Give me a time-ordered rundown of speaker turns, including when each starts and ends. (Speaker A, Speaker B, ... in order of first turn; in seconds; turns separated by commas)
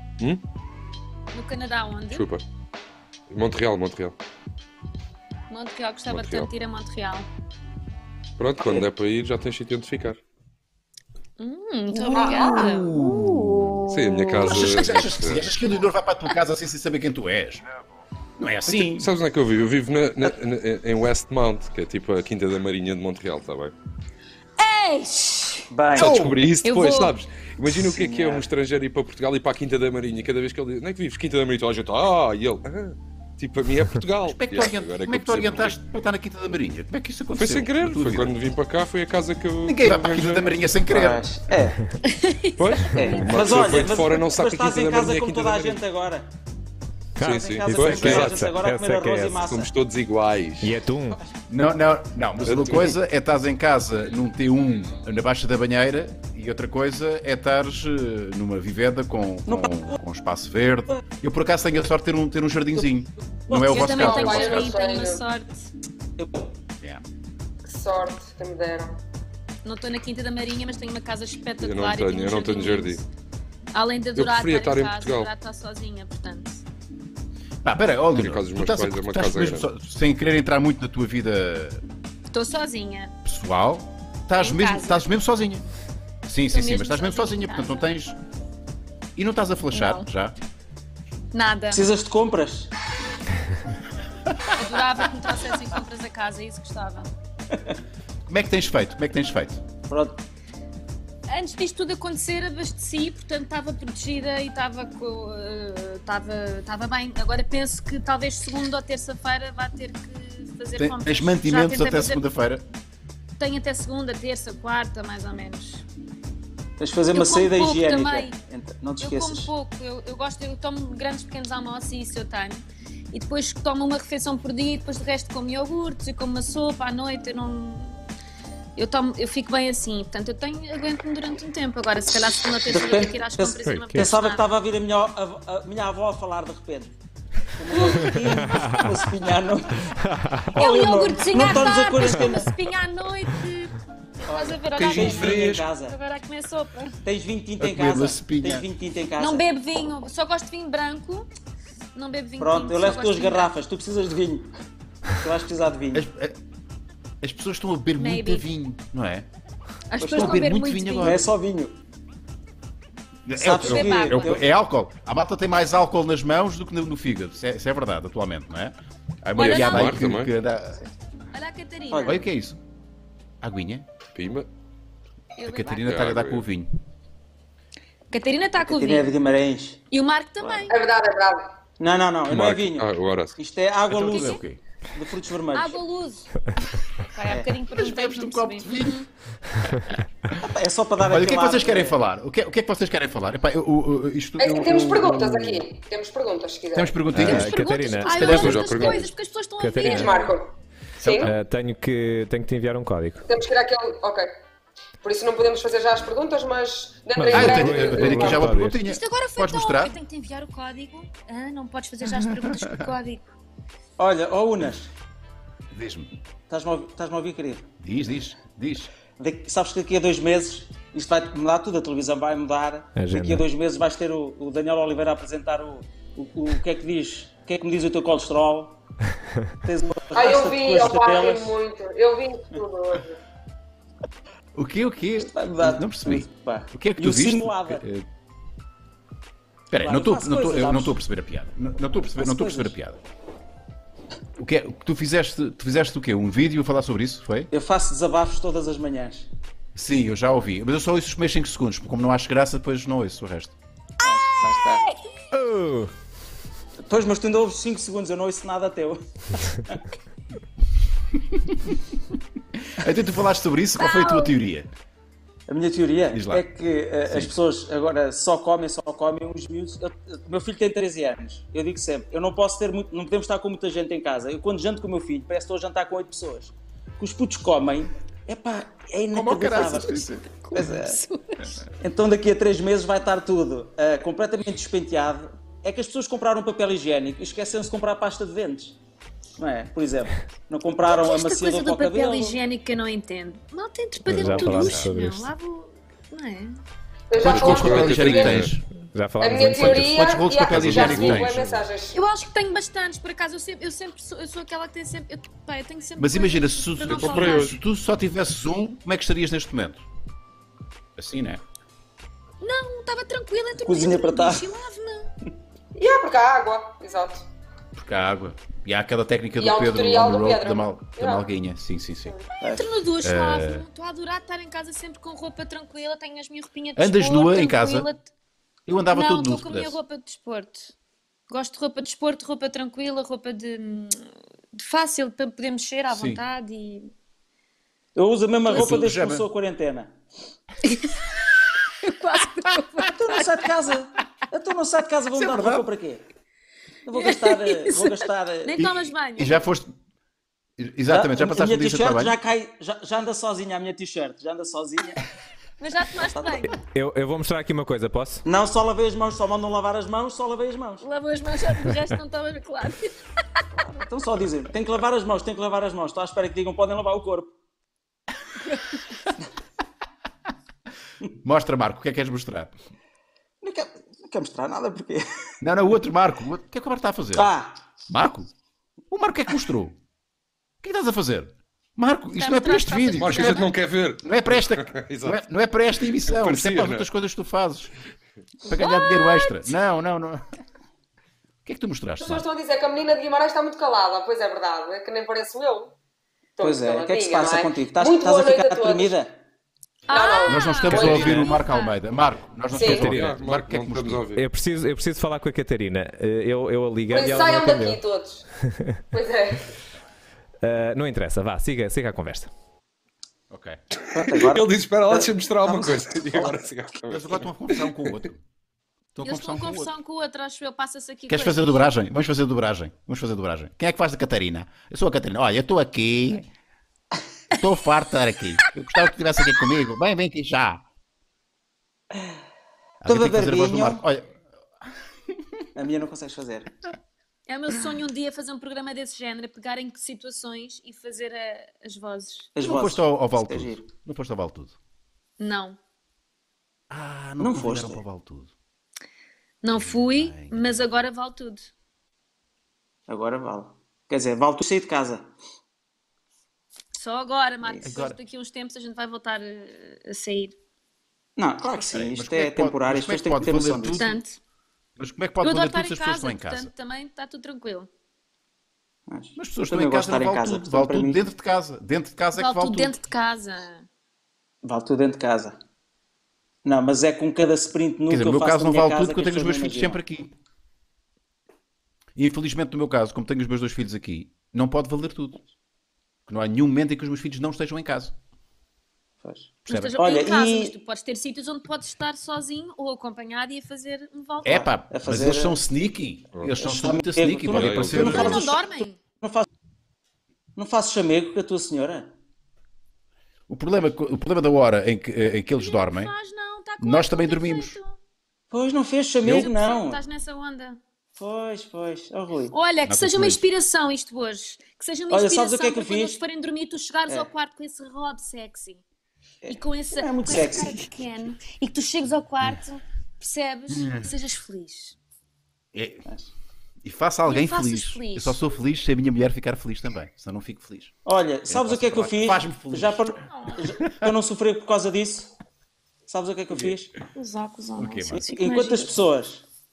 Speaker A: 1.3-2.2, Speaker B: 2.1-2.4, Speaker B: 3.3-4.2, Speaker A: 5.5-7.2, Speaker B: 6.1-6.5, Speaker B: 8.4-10.2, Speaker A: 11.4-13.1, Speaker C: 12.1-12.7, Speaker D: 12.9-13.7, Speaker B: 13.8-15.5, Speaker D: 14.4-17.6, Speaker D: 18.4-19.1, Speaker B: 18.8-23.7, Speaker A: 24.6-25.7, Speaker E: 25.7-26.2, Speaker B: 25.9-35.8, Speaker D: 26.0-26.4, Speaker A: 26.6-27.1, Speaker E: 27.8-28.5, Speaker D: 34.2-38.4, Speaker B: 37.4-40.6, Speaker D: 39.6-41.2, Speaker E: 40.9-41.8, Speaker A: 42.0-43.3, Speaker B: 42.6-45.8, Speaker E: 42.9-46.3, Speaker F: 47.2-49.3, Speaker B: 47.2-48.4, Speaker E: 47.2-49.7, Speaker B: 49.4-50.8, Speaker F: 50.6-51.2, Speaker D: 51.5-64.8, Speaker B: 52.4-53.0, Speaker E: 59.5-59.9, Speaker E: 63.5-63.9, Speaker A: 63.5-65.7, Speaker C: 63.8-65.2, Speaker E: 66.2-66.5, Speaker C: 67.6-69.0, Speaker A: 69.6-73.1, Speaker B: 71.6-73.0, Speaker A: 73.7-76.6, Speaker B: 74.2-75.3, Speaker D: 77.6-81.8, Speaker B: 78.1-79.7, Speaker A: 82.3-83.1, Speaker D: 83.2-85.6, Speaker A: 84.3-85.1, Speaker D: 86.2-88.2, Speaker A: 86.5-87.9, Speaker D: 89.2-90.3, Speaker A: 89.7-90.1, Speaker A: 91.3-91.8, Speaker E: 91.7-92.7, Speaker A: 94.5-97.1, Speaker D: 98.2-99.6, Speaker E: 99.9-100.2, Speaker A: 101.3-112.2, Speaker D: 110.8-112.6, Speaker A: 113.4-115.8, Speaker E: 116.8-119.5, Speaker A: 117.1-118.4, Speaker A: 119.0-128.0, Speaker A: 128.8-134.4, Speaker E: 132.7-136.9, Speaker E: 137.6-139.9, Speaker A: 137.8-138.1, Speaker F: 138.5-138.8, Speaker F: 139.8-140.4, Speaker E: 140.5-142.5, Speaker A: 140.5-143.8, Speaker E: 144.3-146.0, Speaker A: 144.3-147.0, Speaker B: 144.8-145.7, Speaker E: 147.0-149.5, Speaker D: 147.6-148.7, Speaker A: 149.2-151.3, Speaker A: 151.9-153.5, Speaker E: 152.4-154.5, Speaker E: 155.2-156.1, Speaker D: 155.9-156.4, Speaker D: 157.2-159.2, Speaker A: 158.0-158.4, Speaker A: 159.9-161.2, Speaker E: 160.0-161.8, Speaker D: 160.1-161.3, Speaker D: 163.2-170.9, Speaker E: 163.3-164.4, Speaker A: 163.6-164.4, Speaker A: 169.3-169.9, Speaker B: 169.4-170.3, Speaker A: 171.3-172.2, Speaker E: 171.9-172.2, Speaker D: 172.1-172.6, Speaker D: 173.4-173.8, Speaker B: 174.1-174.5, Speaker A: 175.4-175.8, Speaker D: 175.4-176.7, Speaker B: 175.7-176.4, Speaker A: 178.1-179.1, Speaker E: 178.6-179.8, Speaker A: 179.9-180.8, Speaker E: 180.4-180.7, Speaker C: 180.7-181.6, Speaker E: 181.8-185.8, Speaker B: 182.3-183.4, Speaker D: 183.9-184.6, Speaker A: 184.0-184.4, Speaker A: 185.5-186.4, Speaker A: 187.0-189.1, Speaker E: 187.3-187.5, Speaker D: 187.7-189.0, Speaker E: 190.4-192.0, Speaker D: 191.0-195.6, Speaker C: 194.4-197.1, Speaker D: 196.7-197.5, Speaker F: 197.1-198.8, Speaker A: 197.2-200.3, Speaker D: 198.1-199.0, Speaker B: 198.2-199.1, Speaker F: 199.6-200.2, Speaker C: 199.8-201.4, Speaker D: 201.0-201.4, Speaker F: 201.2-203.2, Speaker C: 203.2-204.3, Speaker C: 205.0-208.5, Speaker F: 207.2-208.8, Speaker D: 207.3-210.0, Speaker A: 208.8-213.3, Speaker D: 212.4-212.9, Speaker E: 214.0-214.9, Speaker D: 215.7-216.1, Speaker E: 216.5-217.7, Speaker D: 217.8-218.9, Speaker E: 219.2-228.8, Speaker F: 222.9-223.4, Speaker E: 229.6-231.6, Speaker C: 230.1-233.2, Speaker D: 234.5-238.1, Speaker E: 235.2-237.8, Speaker D: 239.7-243.0, Speaker E: 239.8-241.0, Speaker E: 242.2-242.7, Speaker D: 244.4-247.5, Speaker E: 247.5-249.3, Speaker D: 249.8-253.5, Speaker E: 254.0-254.9, Speaker F: 255.3-255.9, Speaker E: 256.8-259.8, Speaker D: 261.1-261.8, Speaker D: 262.6-264.7, Speaker A: 263.8-264.4, Speaker E: 265.5-281.0, Speaker D: 266.1-266.4, Speaker D: 267.1-267.3, Speaker D: 279.1-280.3, Speaker A: 280.5-281.5, Speaker E: 281.7-288.8, Speaker E: 289.4-292.4, Speaker A: 290.9-296.6, Speaker F: 294.1-295.3, Speaker D: 294.3-294.9, Speaker C: 297.1-298.4, Speaker D: 297.1-298.6, Speaker B: 297.2-298.5, Speaker F: 298.9-300.0, Speaker C: 299.2-302.0, Speaker D: 299.4-301.6, Speaker B: 300.5-301.5, Speaker A: 301.9-307.6, Speaker D: 306.0-309.8, Speaker B: 306.9-307.6, Speaker D: 311.0-311.4, Speaker A: 312.4-315.1, Speaker E: 313.6-314.5, Speaker C: 315.8-317.2, Speaker D: 317.8-322.1, Speaker C: 319.4-321.2, Speaker A: 322.4-328.1, Speaker E: 322.4-322.7, Speaker D: 323.0-323.6, Speaker D: 326.8-327.9, Speaker D: 328.6-329.8, Speaker A: 328.9-330.7, Speaker A: 331.3-336.9, Speaker D: 335.9-336.2, Speaker E: 338.0-340.0, Speaker D: 338.5-339.3, Speaker A: 340.6-341.1, Speaker A: 341.7-343.5, Speaker E: 342.9-346.0, Speaker D: 345.1-345.7, Speaker E: 346.9-348.7, Speaker A: 346.9-349.4, Speaker D: 348.6-349.7, Speaker D: 350.6-352.1, Speaker E: 350.9-355.0, Speaker A: 355.6-356.6, Speaker E: 356.0-356.6, Speaker F: 356.5-358.2, Speaker E: 358.2-360.8, Speaker A: 360.8-363.1, Speaker E: 363.8-367.3, Speaker D: 371.2-372.5, Speaker E: 373.4-375.0, Speaker D: 375.4-377.3, Speaker E: 377.1-377.6, Speaker D: 377.9-378.3, Speaker D: 378.9-379.8, Speaker D: 380.6-383.5, Speaker A: 382.2-383.5, Speaker B: 383.0-385.2, Speaker D: 384.0-387.7, Speaker B: 386.0-386.9, Speaker A: 388.4-389.5, Speaker D: 388.5-390.2, Speaker D: 391.4-392.2, Speaker C: 392.0-395.7, Speaker C: 396.4-399.0, Speaker E: 396.4-399.1, Speaker A: 399.9-401.8, Speaker C: 399.9-401.3, Speaker D: 400.2-404.1, Speaker C: 402.5-402.9, Speaker F: 402.6-403.2, Speaker B: 402.7-404.2, Speaker F: 404.2-407.8, Speaker C: 406.9-408.2, Speaker F: 408.4-408.8, Speaker C: 408.9-409.5, Speaker F: 410.4-412.3, Speaker D: 413.3-413.6, Speaker B: 413.8-417.8, Speaker E: 413.9-416.4, Speaker D: 416.9-418.2, Speaker D: 418.9-419.7, Speaker A: 419.0-421.6, Speaker D: 421.1-426.3, Speaker D: 427.3-430.6, Speaker D: 432.8-434.2, Speaker E: 432.9-433.8, Speaker E: 435.5-436.5, Speaker A: 437.3-442.3, Speaker E: 442.4-443.7, Speaker D: 442.4-444.6, Speaker A: 445.2-445.6, Speaker D: 446.7-448.3, Speaker E: 447.2-447.8, Speaker A: 449.4-451.5, Speaker D: 449.5-450.6, Speaker E: 452.9-455.1, Speaker A: 456.8-460.4, Speaker D: 457.6-458.0, Speaker E: 461.2-463.9, Speaker D: 461.6-464.0, Speaker A: 463.7-464.2, Speaker D: 464.8-466.5, Speaker A: 465.2-467.7, Speaker E: 468.9-471.0, Speaker D: 469.1-472.7, Speaker A: 472.1-473.7, Speaker E: 474.4-475.4, Speaker E: 476.4-479.8, Speaker D: 477.9-480.1, Speaker D: 482.0-485.2, Speaker D: 486.1-487.9, Speaker E: 489.0-490.5, Speaker D: 489.5-489.8, Speaker A: 489.5-494.5, Speaker D: 494.2-498.4, Speaker E: 494.7-495.4, Speaker E: 496.4-498.4, Speaker B: 497.3-498.3, Speaker A: 497.7-498.8, Speaker E: 499.0-499.2, Speaker E: 500.4-501.9, Speaker D: 503.3-505.9, Speaker A: 505.2-507.8, Speaker D: 506.6-507.6, Speaker E: 508.3-509.8, Speaker A: 509.0-510.6, Speaker E: 511.0-512.4, Speaker A: 512.3-518.6, Speaker D: 512.6-513.2, Speaker E: 514.9-516.0, Speaker E: 519.2-520.7, Speaker A: 519.3-524.8, Speaker D: 523.5-523.9, Speaker D: 525.5-525.9, Speaker E: 525.9-526.1, Speaker D: 526.6-530.7, Speaker A: 527.0-528.2, Speaker E: 530.9-535.1, Speaker D: 531.3-533.9, Speaker A: 533.0-533.4, Speaker E: 535.9-536.7, Speaker A: 536.9-538.8, Speaker D: 537.5-538.0, Speaker E: 537.9-539.2